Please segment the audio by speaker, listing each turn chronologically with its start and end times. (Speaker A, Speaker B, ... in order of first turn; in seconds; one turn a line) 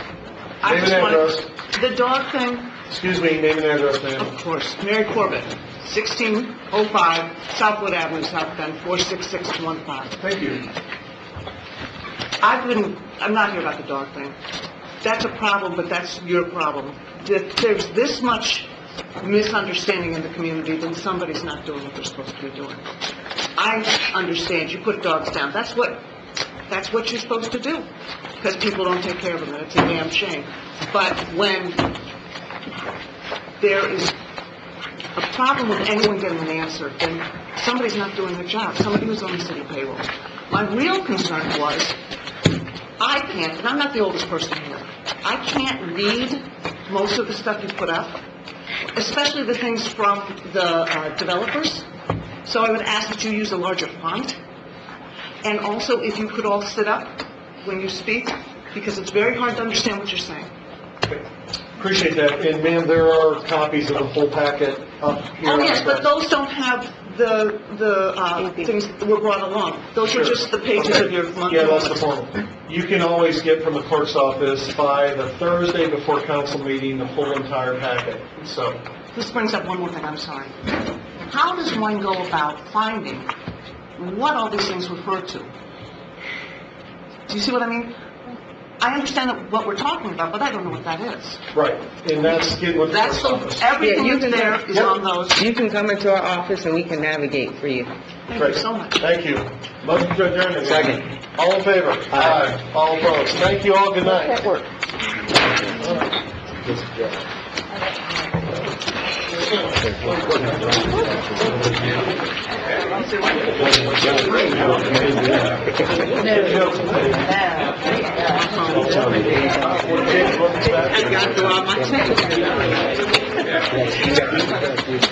Speaker A: 0.6-2.8
Speaker B: 0.7-1.5
Speaker B: 2.9-4.3
Speaker A: 4.2-10.2
Speaker B: 10.2-10.7
Speaker A: 12.4-14.4
Speaker A: 15.0-18.7
Speaker A: 19.2-22.9
Speaker A: 23.6-26.1
Speaker A: 26.7-27.9
Speaker A: 28.4-32.0
Speaker A: 33.6-34.1
Speaker A: 35.2-42.0
Speaker A: 43.0-48.2
Speaker A: 49.0-51.9
Speaker A: 52.5-54.4
Speaker A: 55.4-60.5
Speaker B: 61.8-66.1
Speaker A: 65.4-72.0
Speaker B: 70.0-78.8
Speaker A: 79.1-80.7
Speaker A: 81.3-83.3
Speaker A: 84.0-85.5
Speaker A: 87.3-88.0
Speaker A: 88.8-91.4
Speaker B: 91.5-93.7
Speaker A: 92.3-95.4
Speaker C: 93.8-94.6
Speaker C: 95.3-97.9
Speaker A: 98.3-99.0
Speaker B: 98.4-104.7
Speaker C: 100.6-101.1
Speaker C: 102.1-102.5
Speaker B: 114.3-115.2
Speaker B: 116.2-117.3
Speaker A: 118.2-119.4
Speaker B: 118.7-121.5
Speaker A: 120.9-122.8